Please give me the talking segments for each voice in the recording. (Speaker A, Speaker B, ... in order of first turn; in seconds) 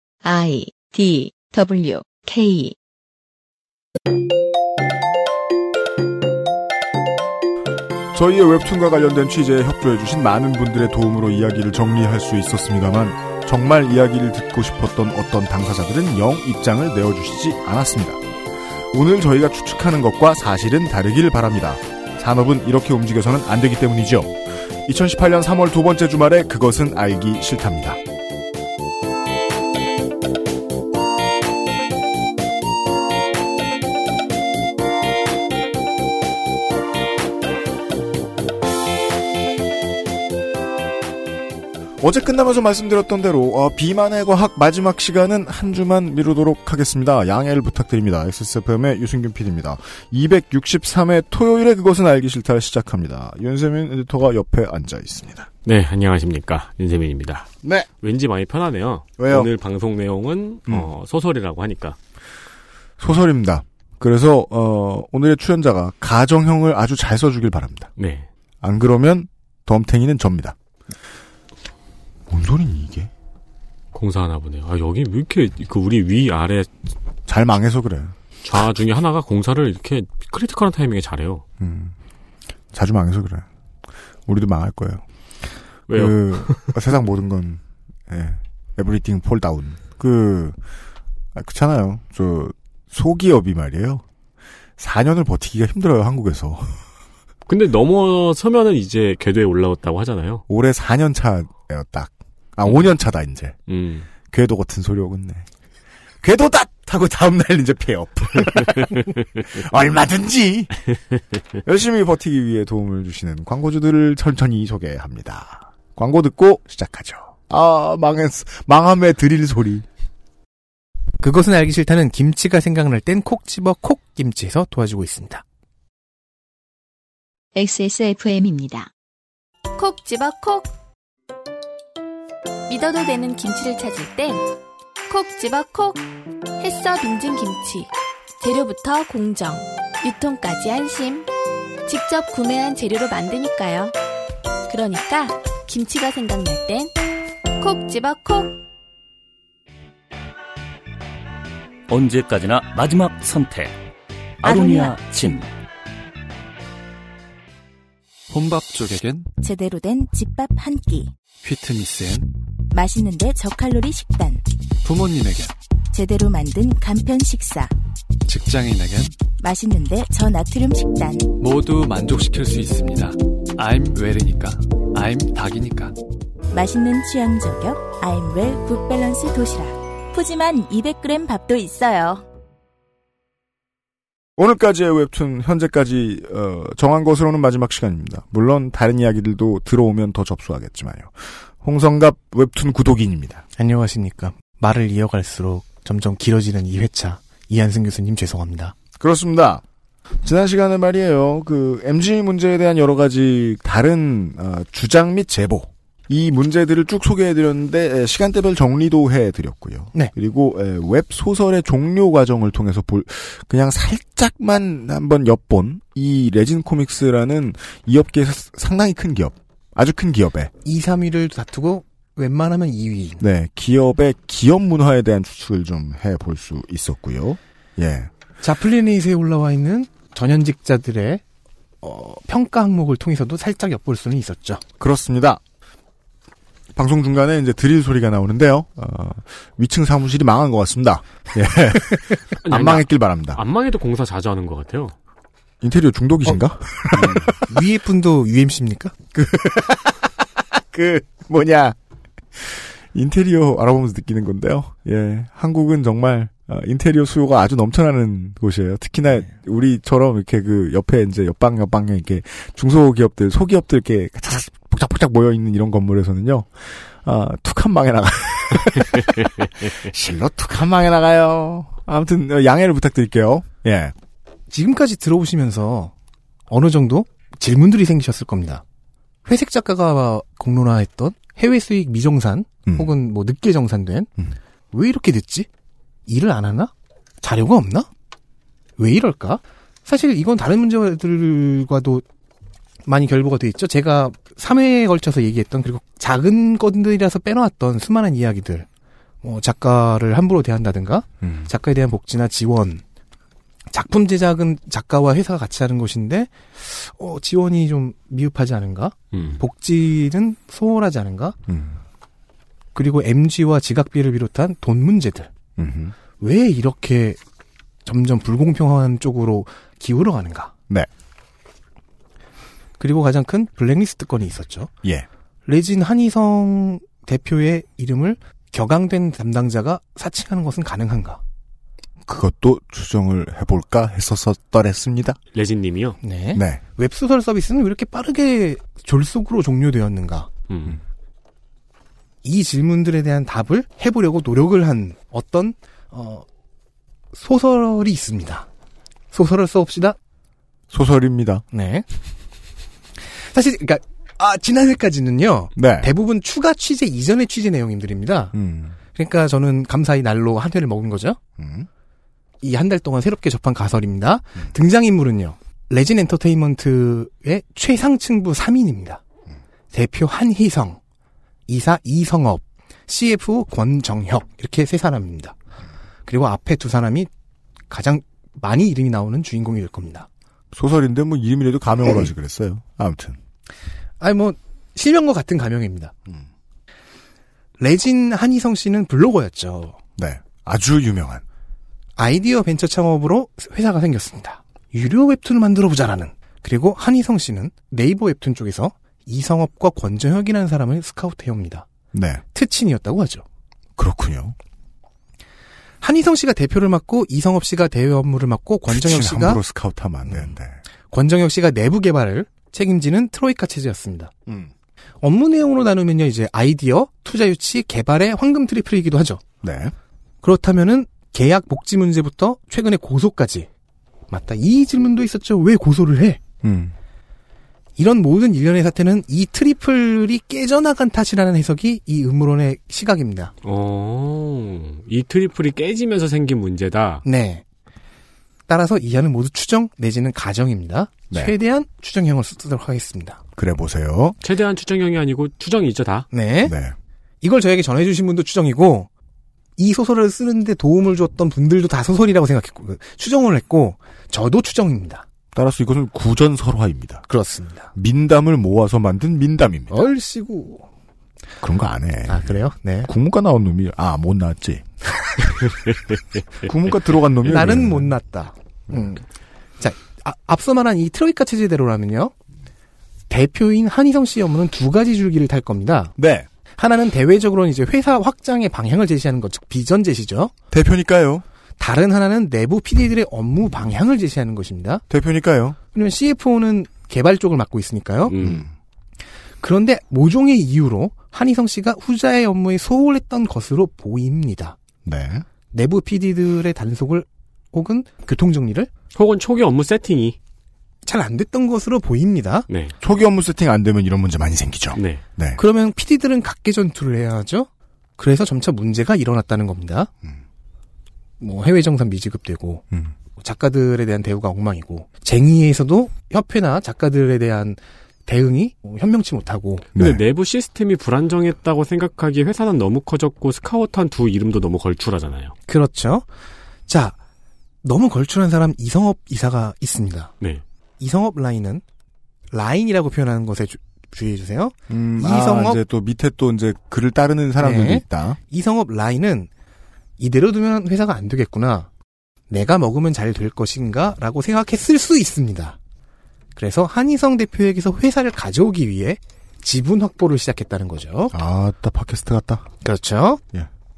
Speaker A: 0.2-2.8, 127.5-128.9
Speaker B: 8.1-18.2, 18.9-28.0, 42.0-55.5, 57.6-57.9, 59.2-59.5, 63.0-67.9, 68.6-70.6, 72.3-73.1, 77.3-78.2, 81.6-81.9, 82.7-83.5, 84.3-85.0, 85.9-90.6, 91.3-94.0, 94.8-96.8, 100.5-103.5, 104.3-105.5, 106.2-110.8, 111.6-119.8, 184.4-193.4, 199.0-199.6, 200.2-220.5, 223.2-228.1, 234.8-235.4, 236.8-243.4, 245.6-247.6, 249.1-251.8, 252.4-273.9, 282.7-282.9, 301.2-301.5, 311.5-311.8, 315.6-315.9, 332.1-335.2, 336.3-336.6, 350.7-351.4, 355.6-355.9, 358.3-358.8, 361.4-361.7, 380.5-383.2, 390.0-391.2, 401.9-402.2, 403.8-404.4, 408.7-410.6, 419.4-419.7, 426.4-426.7, 443.4-444.2, 446.4-446.8, 455.3-457.1, 457.8-459.8, 461.4-464.7, 466.4-467.9, 476.0-476.3, 480.5-481.2, 484.9-485.6, 488.2-488.5, 494.9-495.2, 502.8-505.4, 519.8-520.0, 534.7-538.2, 551.1-552.5
Speaker C: 55.6-57.5, 58.0-62.0, 68.0-68.3, 73.9-76.7, 78.5-81.4, 85.9-86.8, 97.5-100.4, 103.7-104.1, 242.4-244.9, 309.1-309.4, 335.3-336.0, 340.5-340.8, 433.4-437.0, 444.2-446.1, 488.1-488.4, 498.9-500.2, 502.5-502.7, 504.8-505.0, 519.8-525.4
Speaker D: 121.2-125.4, 193.6-198.8, 220.6-223.2, 228.4-231.2, 231.8-234.6, 247.4-248.9, 274.5-275.9, 276.5-278.6, 279.3-284.1, 284.7-285.5, 286.1-287.9, 288.8-292.0, 292.9-298.7, 299.2-302.8, 303.7-311.4, 312.8-315.3, 316.2-317.2, 317.9-320.5, 322.8-324.7, 325.5-331.2, 336.0-340.3, 342.2-346.2, 347.1-348.5, 349.1-350.0, 351.5-351.9, 353.1-358.3, 358.9-361.2, 362.4-369.0, 369.7-370.8, 371.5-375.4, 376.1-377.1, 377.7-380.1, 384.0-385.9, 387.6-389.8, 392.0-401.7, 402.3-403.2, 405.8-409.4, 410.9-414.1, 415.0-419.2, 420.2-423.5, 424.1-426.2, 427.8-433.3, 437.1-437.4, 438.5-443.2, 446.1-446.5, 447.2-448.9, 449.6-455.1, 457.1-457.7, 459.7-460.7, 462.1-462.9, 467.2-469.0, 469.6-472.1, 473.1-476.0, 476.6-480.3, 481.6-484.8, 485.7-488.1, 489.4-494.6, 495.5-498.7, 500.9-502.5, 505.4-509.9, 511.2-512.6, 513.2-519.7, 525.5-526.1, 526.7-527.0, 527.6-530.1, 530.8-531.6, 532.3-535.6, 537.4-539.3, 540.0-541.7, 542.3-545.6, 546.4-551.1, 552.6-553.2
Speaker E: 129.8-130.7, 132.7-134.4, 135.1-136.0, 136.6-141.3, 141.9-143.9, 144.7-146.9, 147.6-148.6
Speaker F: 151.9-153.8, 154.4-155.5
Speaker G: 158.3-159.3, 161.4-162.3, 164.8-165.5, 168.3-169.2, 171.4-175.9
Speaker H: 159.4-161.1, 162.7-164.4, 165.9-167.7, 169.4-171.3, 176.5-182.3